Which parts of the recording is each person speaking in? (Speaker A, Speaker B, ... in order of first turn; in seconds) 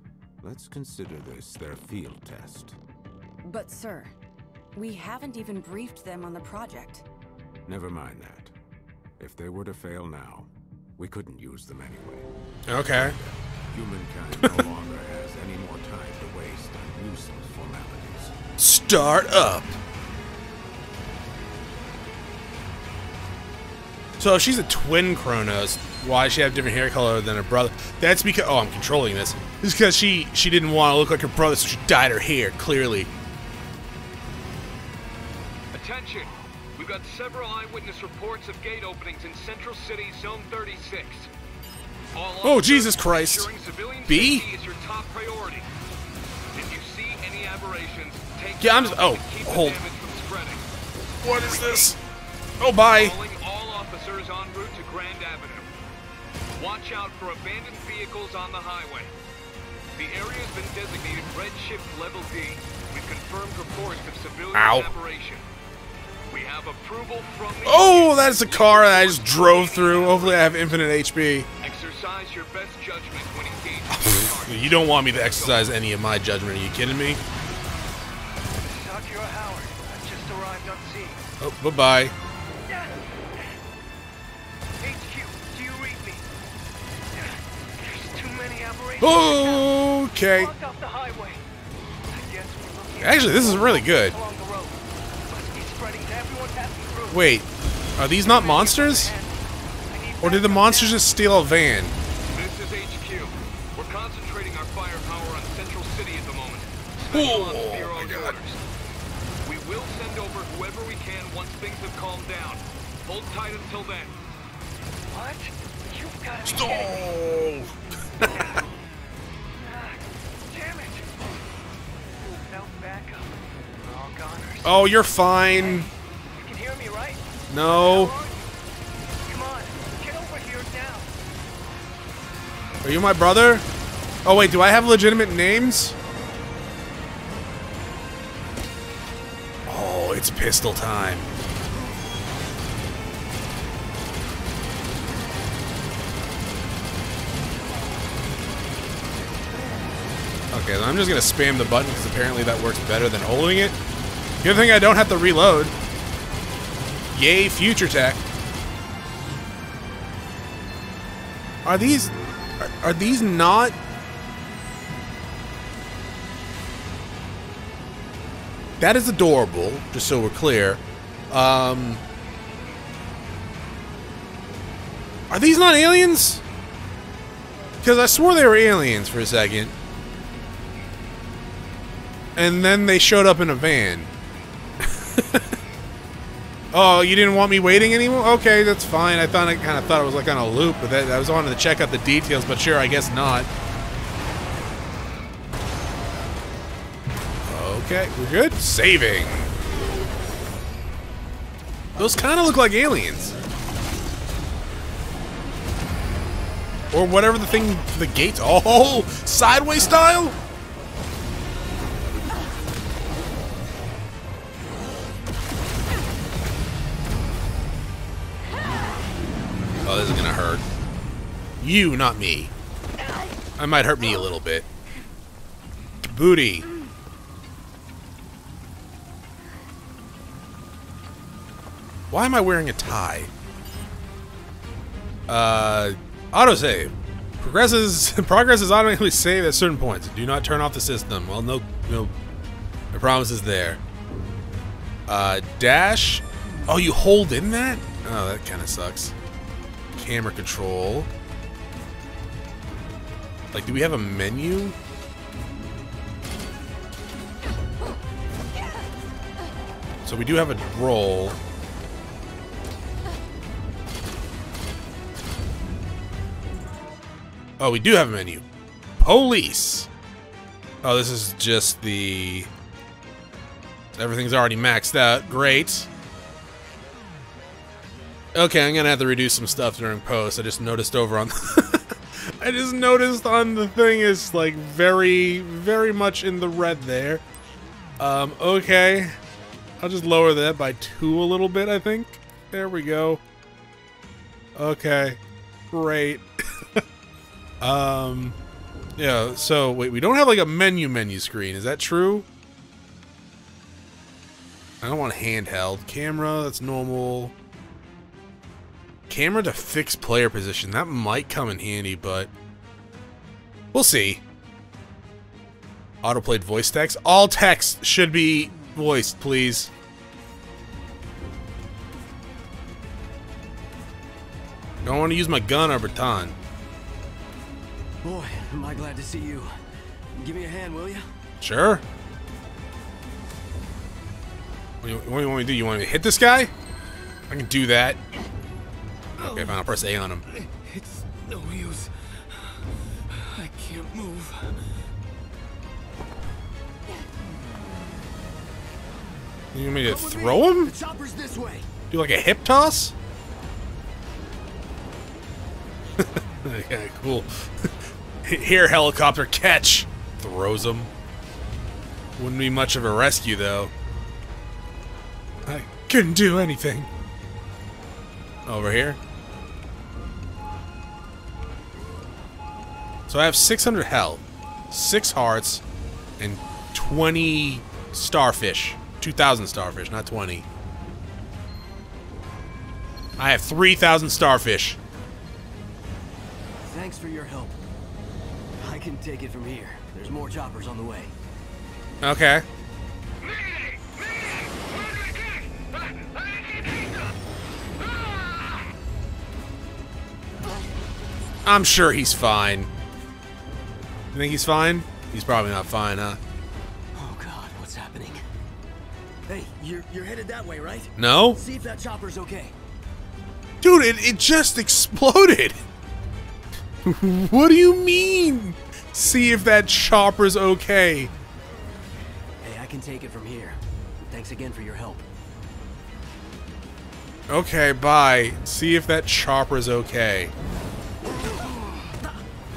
Speaker A: 0.4-2.8, 7.7-8.5, 9.2-12.3, 12.8-18.4
Speaker B: 3.4-4.1, 4.8-7.0
Speaker C: 12.7-13.2, 18.6-19.8, 24.2-33.1, 42.4-43.5, 44.1-44.5, 48.6-49.8, 51.2-52.0, 52.6-53.1, 64.5-64.9, 67.7-71.5, 74.0-77.2, 81.4-82.1, 89.0-90.5, 93.0-94.2, 97.1-99.1, 100.2-102.0, 107.1-108.4, 116.5-118.6, 124.6-125.9, 127.5-128.1, 132.8-133.7, 134.2-135.9, 139.7-141.3, 150.5-153.8, 154.4-155.7, 157.1-158.2, 161.7-163.8, 168.8-172.0, 175.3-176.4, 177.8-179.7, 182.4-184.1, 184.8-185.5, 186.7-193.5, 197.5-199.5, 202.0-203.4, 206.9-210.4, 219.8-220.6, 221.6-222.5, 223.6-224.7, 226.1-226.7, 232.1-233.3, 235.3-242.1, 242.9-243.8, 245.1-249.1, 249.9-251.1, 253.5-254.8, 260.1-261.4, 267.6-268.4, 269.0-269.9, 270.8-272.5, 273.9-275.9, 278.4-287.2, 288.0-289.2, 289.8-293.2, 294.6-295.2, 295.7-296.2, 297.6-298.4, 299.0-302.3, 304.8-307.3, 309.1-312.3, 313.7-314.2, 316.0-319.7, 324.8-326.4, 331.4-331.8, 334.8-336.5, 337.3-338.0, 339.2-340.2, 349.5-350.7, 351.9-352.9, 356.0-357.7, 358.2-360.9, 362.2-363.7, 365.5-366.9, 368.5-369.0, 373.1-375.6, 376.2-380.5, 383.2-384.8, 392.0-392.4, 401.5-402.7, 404.1-406.2, 411.0-411.4, 413.6-415.6, 416.8-421.1, 427.3-430.3
Speaker D: 35.7-41.3, 42.1-45.7, 46.5-50.6, 51.3-52.0, 52.8-55.7, 56.6-59.1, 60.0-65.4, 66.3-70.8, 71.6-75.7, 102.3-108.6, 109.4-114.1
Speaker E: 78.6-81.2, 82.7-83.4, 84.8-86.2, 87.1-91.4, 92.0-97.2, 98.2-99.3, 99.9-101.0, 115.1-117.2, 118.2-118.7, 119.6-121.1, 122.2-124.9, 125.5-128.4, 129.3-131.1
Speaker F: 328.0-329.6, 330.1-331.1, 340.6-341.9, 343.3-344.3, 349.8-351.7, 386.6-387.6, 388.6-391.1, 406.9-408.2, 409.3-412.6, 422.4-425.1